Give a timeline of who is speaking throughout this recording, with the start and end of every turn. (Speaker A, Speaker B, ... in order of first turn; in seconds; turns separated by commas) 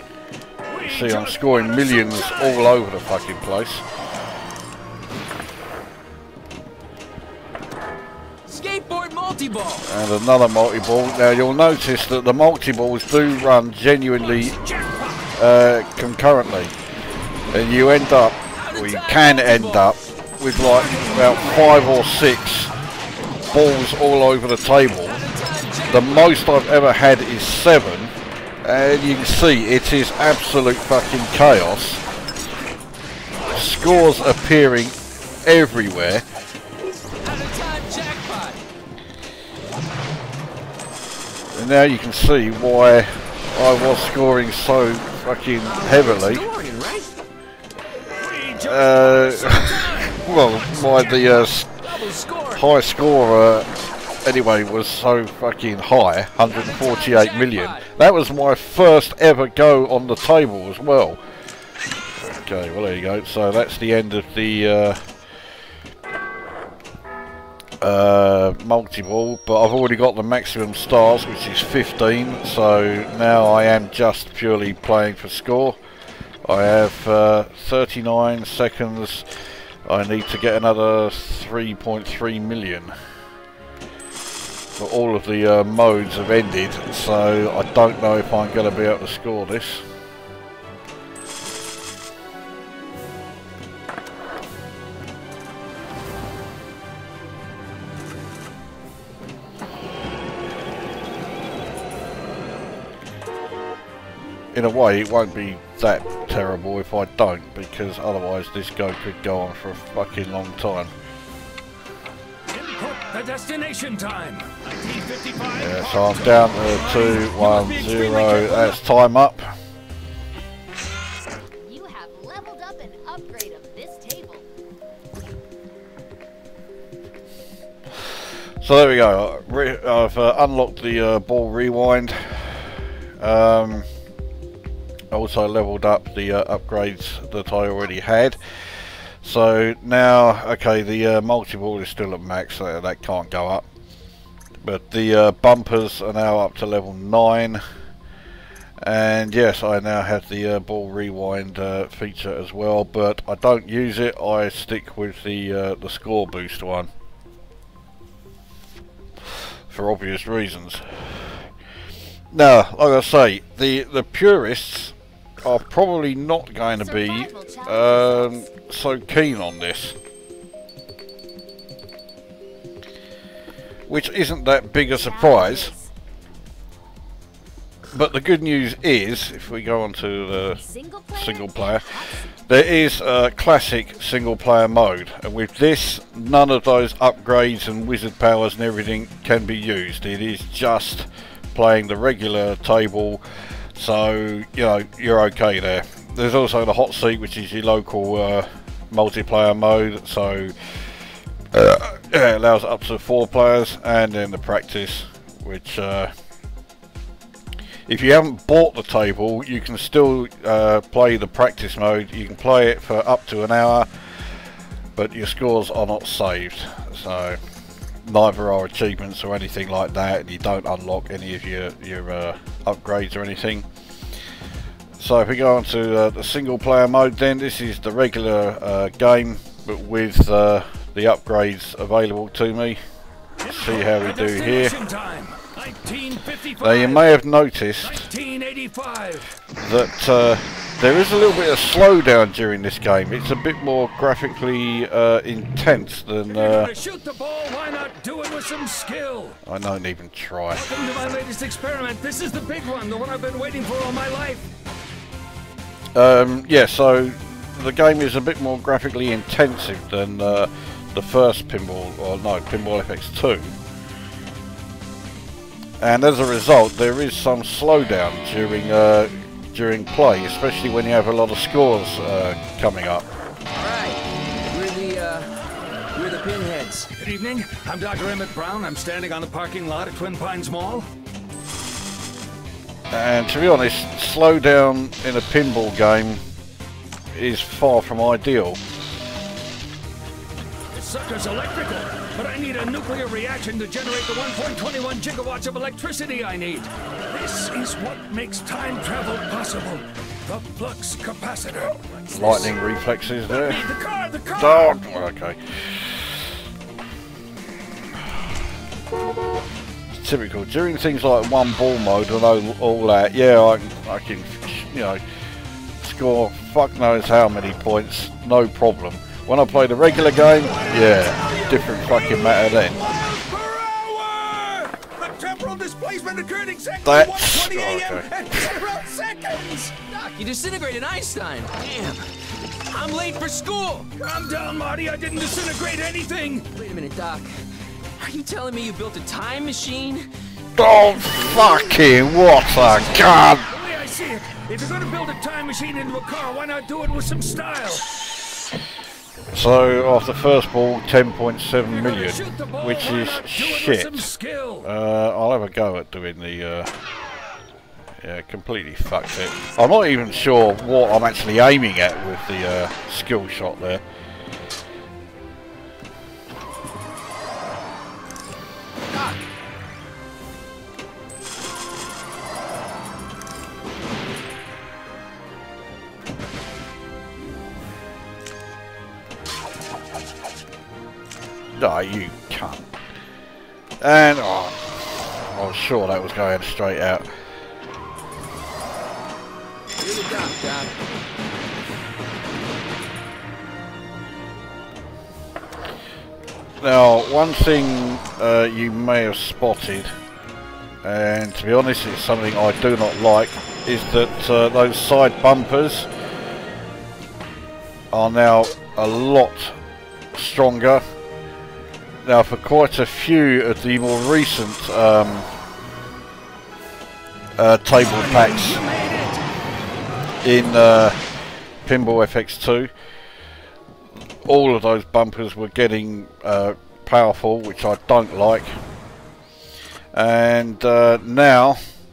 Speaker A: 0.7-2.8, Speaker B: 0.8-3.9, Speaker C: 8.5-9.9, Speaker B: 9.9-14.6, Speaker A: 14.2-15.3, Speaker B: 15.4-16.7, Speaker B: 17.5-22.7, Speaker C: 18.5-19.9, Speaker A: 20.5-22.3, Speaker B: 23.5-25.2, Speaker C: 25.0-26.4, Speaker B: 25.9-32.0, Speaker A: 33.3-34.4, Speaker B: 33.5-36.2, Speaker C: 37.2-38.6, Speaker B: 41.5-46.5, Speaker C: 45.6-47.2, Speaker A: 48.1-51.1, Speaker B: 48.6-51.8, Speaker C: 50.8-52.6, Speaker B: 52.5-61.2, Speaker C: 56.4-57.9, Speaker B: 62.2-65.1, Speaker B: 67.8-75.8, Speaker B: 76.5-79.3, Speaker B: 79.9-82.9, Speaker B: 84.8-89.9, Speaker B: 104.5-110.9, Speaker A: 112.5-118.8, Speaker B: 115.6-119.5, Speaker D: 121.3-124.5, Speaker B: 128.6-133.9, Speaker B: 135.1-143.7, Speaker D: 137.6-138.4, Speaker B: 144.6-147.6, Speaker B: 148.8-156.9, Speaker B: 159.7-161.4, Speaker B: 162.3-170.0, Speaker D: 166.8-168.5, Speaker B: 173.9-175.7, Speaker D: 174.9-175.9, Speaker B: 177.9-181.9, Speaker D: 180.6-182.3, Speaker B: 182.5-193.2, Speaker B: 193.8-200.8, Speaker B: 201.5-206.1, Speaker B: 207.9-213.9, Speaker B: 215.0-217.4, Speaker B: 218.1-223.7, Speaker B: 225.0-232.8, Speaker A: 233.4-237.2, Speaker B: 233.5-234.8, Speaker B: 236.6-238.1, Speaker A: 237.8-239.3, Speaker B: 239.6-246.7, Speaker A: 246.2-249.4, Speaker B: 249.4-250.7, Speaker A: 250.5-254.5, Speaker B: 255.9-263.6, Speaker B: 265.8-273.1, Speaker C: 273.5-275.3, Speaker C: 275.9-276.9, Speaker A: 277.0-280.9, Speaker B: 282.9-286.2, Speaker B: 287.1-288.6, Speaker A: 290.7-302.5, Speaker C: 301.9-302.4, Speaker B: 302.1-303.7, Speaker A: 303.3-304.8, Speaker B: 304.4-306.1, Speaker B: 309.9-315.0, Speaker B: 315.8-322.8, Speaker A: 320.5-329.7, Speaker B: 326.9-328.4, Speaker C: 329.9-332.1, Speaker C: 332.7-333.9, Speaker A: 334.0-336.5, Speaker C: 336.5-337.4, Speaker C: 338.0-340.1, Speaker B: 340.6-343.5, Speaker C: 341.0-343.1, Speaker A: 343.5-347.9, Speaker B: 349.3-354.1, Speaker A: 351.7-354.7, Speaker B: 354.6-356.7, Speaker B: 358.0-363.8, Speaker C: 368.9-369.2, Speaker B: 381.6-382.7, Speaker B: 383.8-387.1, Speaker C: 389.8-390.7, Speaker B: 396.6-399.9, Speaker B: 400.8-405.9, Speaker B: 407.9-409.6, Speaker B: 410.1-410.8, Speaker B: 412.0-415.3, Speaker B: 417.4-418.6, Speaker A: 417.8-419.2, Speaker B: 420.2-421.0, Speaker B: 421.6-422.7, Speaker B: 424.2-428.6, Speaker B: 429.9-431.6